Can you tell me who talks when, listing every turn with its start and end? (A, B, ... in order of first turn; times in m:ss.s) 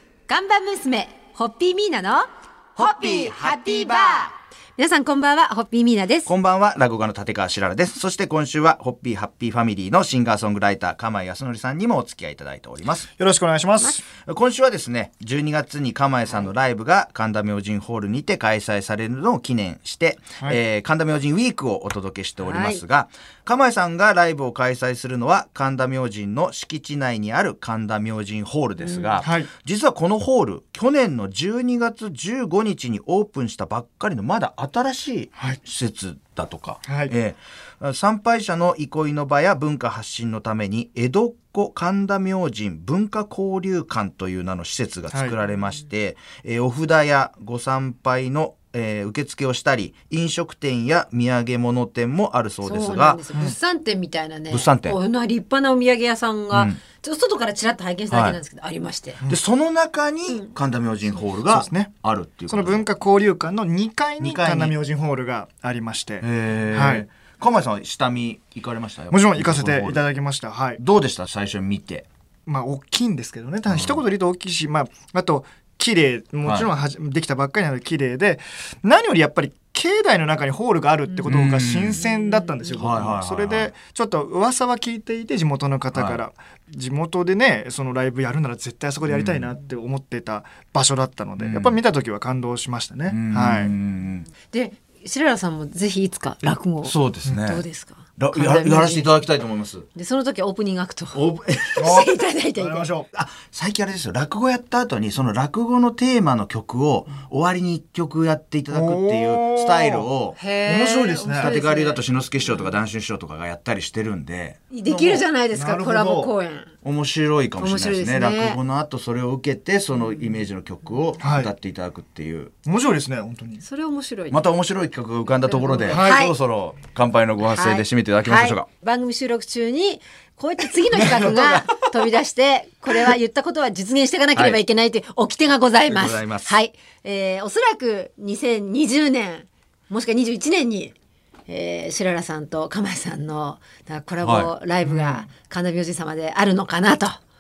0:00.3-0:06.3 A
0:06.2-0:13.1 B
0:13.2-0:14.0 C
0:14.1-0:53.2 B
0:22.4-0:22.8 A
0:28.8-0:29.2 A
0:29.2-0:29.5 C
0:36.9-0:37.1 C
0:45.1-0:45.4 C
0:52.6-0:59.2 A
0:54.5-0:55.0 B
0:56.5-0:56.8 B
0:58.1-0:58.4 B
0:59.3-1:02.8 B
1:00.3-1:00.5 A
1:01.3-1:01.9 C
1:02.5-1:07.0 C
1:04.2-1:04.8 B
1:06.2-1:10.1 B
1:09.1-1:10.8 C
1:10.8-1:12.0 B
1:12.5-1:33.7 C
1:13.7-1:14.0 B
1:16.4-1:16.7 B
1:21.2-1:22.0 B
1:22.0-1:22.8 A
1:22.8-1:23.7 B
1:25.9-1:26.2 B
1:29.0-1:29.5 B
1:31.4-1:31.8 B
1:33.1-1:34.3 B
1:34.5-1:39.2 A
1:36.8-1:37.6 B
1:38.2-1:39.9 B
1:39.9-1:42.9 A
1:41.1-1:42.0 B
1:41.8-1:43.1 C
1:43.1-1:50.4 B
1:48.7-1:50.1 C
1:50.4-1:52.8 A
1:50.7-1:51.5 C
1:51.4-1:55.1 B
1:54.7-1:56.7 A
1:54.9-1:56.3 C
1:56.8-2:02.5 B
1:57.6-1:58.6 A
2:01.2-2:01.5 C
2:02.6-2:03.6 C
2:03.6-2:04.4 A
2:04.3-2:08.6 B
2:05.3-2:06.3 A
2:05.9-2:06.2 C
2:07.4-2:20.9 A
2:11.0-2:11.8 B
2:14.3-2:14.6 B
2:15.9-2:16.6 B
2:21.5-2:27.2 A
2:24.2-2:24.5 B
2:24.8-2:25.2 C